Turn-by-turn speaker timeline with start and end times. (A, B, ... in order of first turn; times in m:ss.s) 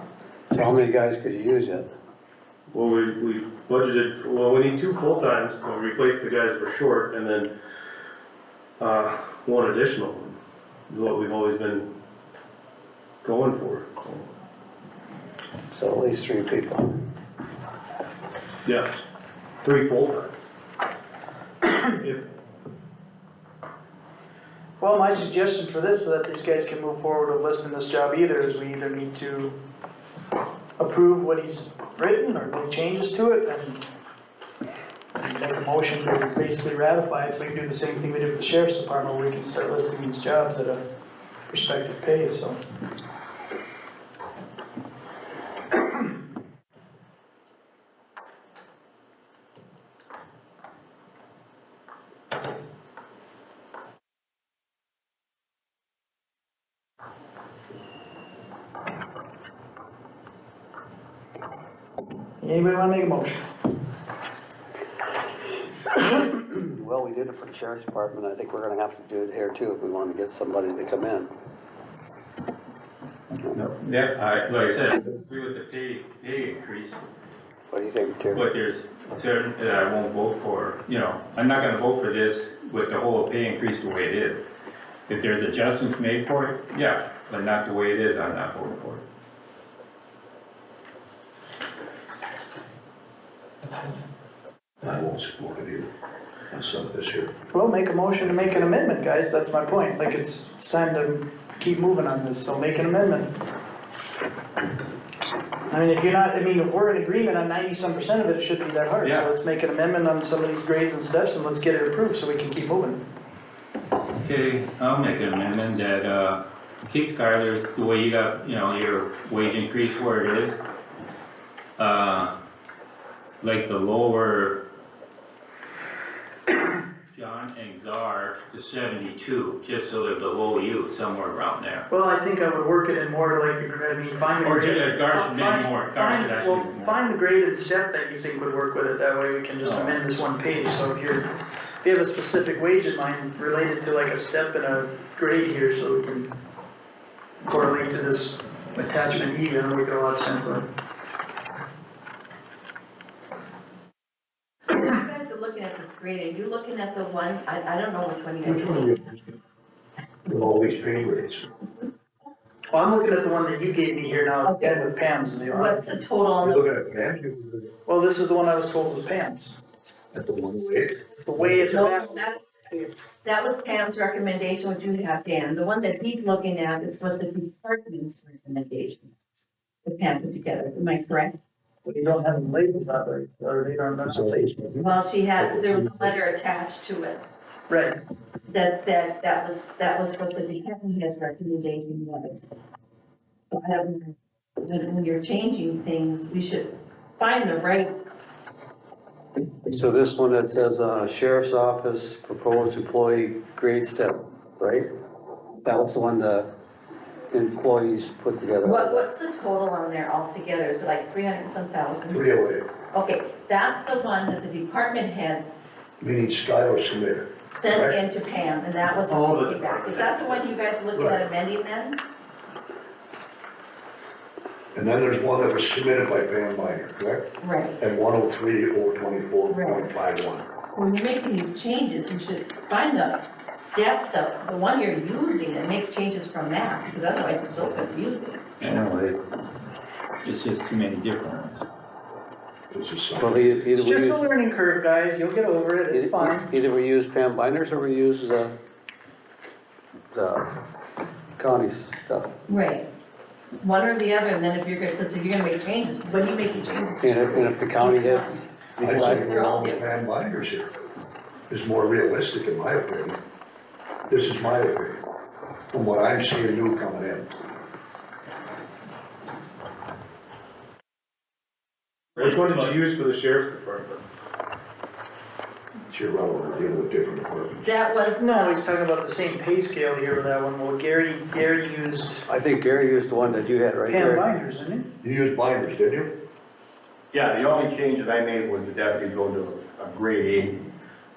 0:00.5-0:01.8 A
0:02.7-0:07.5 B
0:08.8-0:10.4 B
0:10.9-0:11.9 B
0:13.2-0:14.3 B
0:15.7-0:16.9 A
0:18.6-0:19.0 B
0:19.6-0:20.3 B
0:21.8-0:22.2 B
0:24.8-0:29.5 C
0:30.8-0:33.8 C
0:35.2-0:40.8 C
0:41.5-0:42.6 C
1:02.4-1:03.4 C
1:06.1-1:11.3 A
1:13.4-1:17.0 D
1:17.7-1:18.5 A
1:18.3-1:24.4 D
1:25.1-1:29.0 D
1:34.8-1:35.9 E
1:36.5-1:37.3 E
1:37.5-1:43.3 C
1:45.7-1:53.0 C
1:49.0-1:49.3 D
1:54.2-2:00.6 D
2:01.8-2:02.3 D
2:03.4-2:04.6 D
2:07.1-2:11.8 D
2:11.9-2:21.3 C
2:14.4-2:17.0 D
2:19.6-2:20.0 D
2:21.8-2:26.3 C
2:27.4-2:30.6 C
2:34.6-2:38.9 F
2:38.4-2:39.2 E
2:40.2-2:41.5 E
2:42.7-2:45.9 C
2:44.4-2:44.9 F
2:45.5-2:46.7 F
2:46.4-2:47.7 E
2:47.9-2:49.6 C
2:50.1-2:51.8 E
2:51.1-2:52.9 C
2:51.6-2:52.6 F
2:53.2-3:01.4 F
3:01.8-3:04.5 C
3:04.0-3:06.1 E
3:04.8-3:07.2 F
3:07.7-3:08.0 C
3:08.5-3:12.5 F
3:13.5-3:17.9 F
3:19.6-3:24.8 A
3:25.6-3:26.5 A
3:27.3-3:29.1 A
3:28.6-3:32.2 F
3:32.1-3:32.7 E
3:32.9-3:35.6 F
3:36.0-3:38.0 E
3:37.4-3:42.0 F
3:39.2-3:40.1 B
3:40.9-3:41.2 E
3:44.7-3:47.2 E
3:47.4-3:47.8 F
3:47.8-3:50.4 E
3:49.5-3:49.8 F
3:50.7-3:58.4 F
3:58.6-3:59.2 D
4:00.2-4:01.6 D
4:02.7-4:03.5 E
4:03.2-4:04.2 A
4:03.7-4:06.5 C
4:05.9-4:08.5 A
4:10.1-4:10.5 A
4:11.4-4:12.3 A
4:12.5-4:12.8 F
4:13.6-4:18.4 F
4:17.0-4:19.3 A
4:18.8-4:20.7 E
4:19.1-4:20.0 F
4:21.5-4:23.2 E
4:24.1-4:25.0 E
4:25.7-4:27.3 E
4:32.2-4:32.7 D
4:32.2-4:34.0 B
4:35.9-4:37.7 E
4:37.6-4:38.6 F
4:38.2-4:42.3 C
4:42.3-4:44.3 A
4:43.9-4:44.9 C
4:45.0-4:46.1 E
4:47.1-4:50.5 G